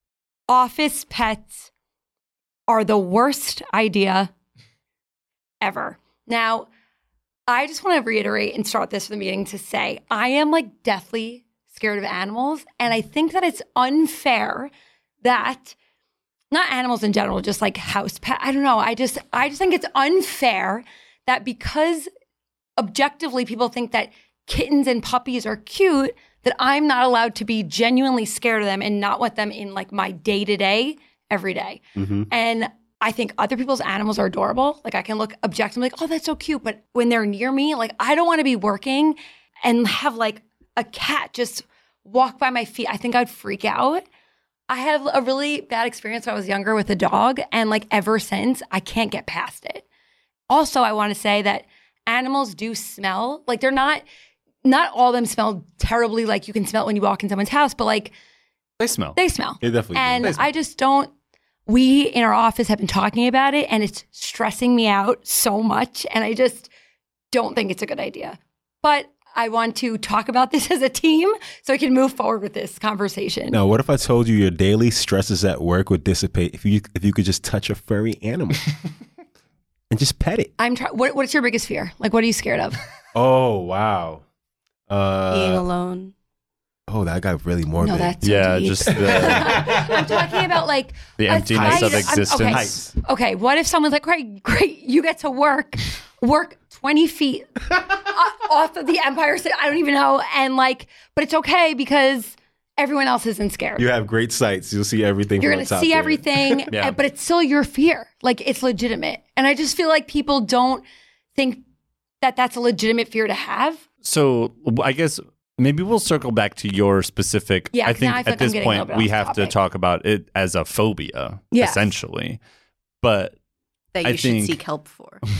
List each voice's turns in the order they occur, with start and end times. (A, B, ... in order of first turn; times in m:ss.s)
0:00.5-0:01.7 A
0:02.7-0:04.3 A
0:05.6-0:06.7 A
0:07.5-0:14.7 A
0:15.2-0:15.8 A
0:16.5-0:22.1 A
0:22.8-0:44.1 A
0:32.0-0:32.3 B
0:44.7-0:49.8 A
0:50.5-0:54.0 A
0:54.6-0:58.1 A
0:58.8-0:59.2 C
0:59.2-1:01.1 A
0:59.6-1:00.4 B
1:01.7-1:06.7 A
1:07.3-1:13.6 A
1:13.5-1:18.7 B
1:19.9-1:20.5 B
1:20.6-1:22.8 A
1:23.1-1:24.2 B
1:24.9-1:25.6 B
1:25.3-1:26.1 D
1:26.9-1:28.2 B
1:27.8-1:43.9 A
1:28.2-1:29.7 C
1:29.0-1:30.2 B
1:31.2-1:32.8 C
1:31.5-1:32.9 B
1:43.8-1:46.7 B
1:45.4-1:51.6 A
1:52.2-1:53.8 A
1:54.0-2:02.4 C
1:57.7-1:59.6 A
2:01.5-2:02.0 A
2:03.0-2:03.4 C
2:03.9-2:05.2 D
2:04.0-2:04.6 C